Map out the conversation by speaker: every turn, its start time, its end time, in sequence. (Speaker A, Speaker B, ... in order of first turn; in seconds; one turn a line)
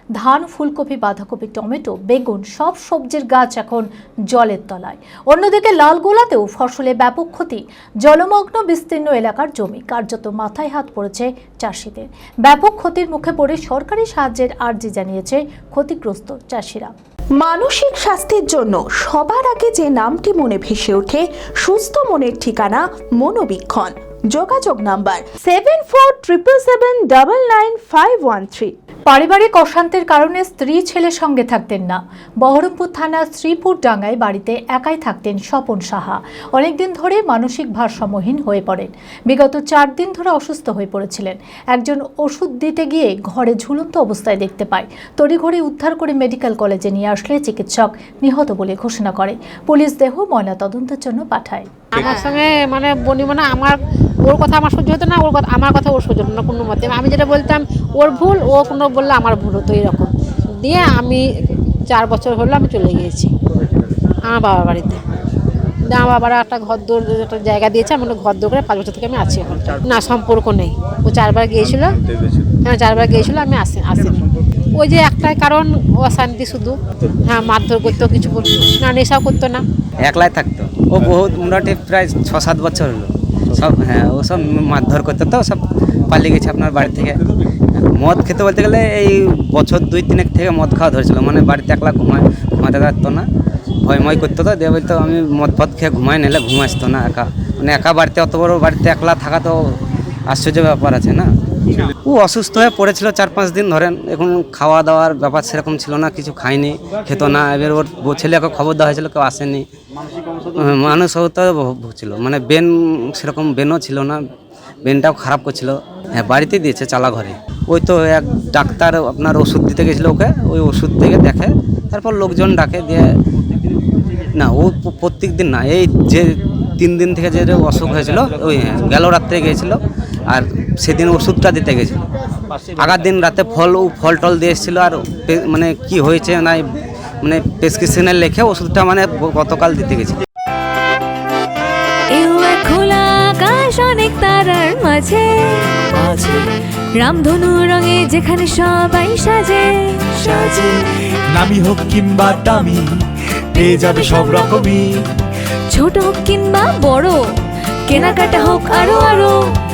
Speaker A: 0.2-16.9
Speaker B: 17.4-28.7
Speaker A: 29.1-51.7
Speaker C: 51.9-61.2
Speaker C: 61.9-63.3
Speaker C: 64.3-65.0
Speaker C: 65.9-72.0
Speaker C: 72.6-74.2
Speaker C: 74.7-79.6
Speaker D: 80.0-87.2
Speaker D: 87.7-93.2
Speaker D: 93.8-99.8
Speaker D: 100.3-101.3
Speaker D: 102.0-109.7
Speaker D: 110.5-114.2
Speaker D: 114.8-123.1
Speaker D: 124.3-129.8
Speaker D: 130.3-132.0
Speaker D: 132.8-136.6
Speaker D: 137.2-140.2
Speaker E: 142.1-146.4
Speaker F: 145.9-146.4
Speaker E: 146.9-150.6
Speaker F: 150.2-150.8
Speaker F: 151.3-152.8
Speaker F: 153.5-154.9
Speaker E: 153.7-154.6
Speaker E: 155.7-157.2
Speaker E: 157.9-159.5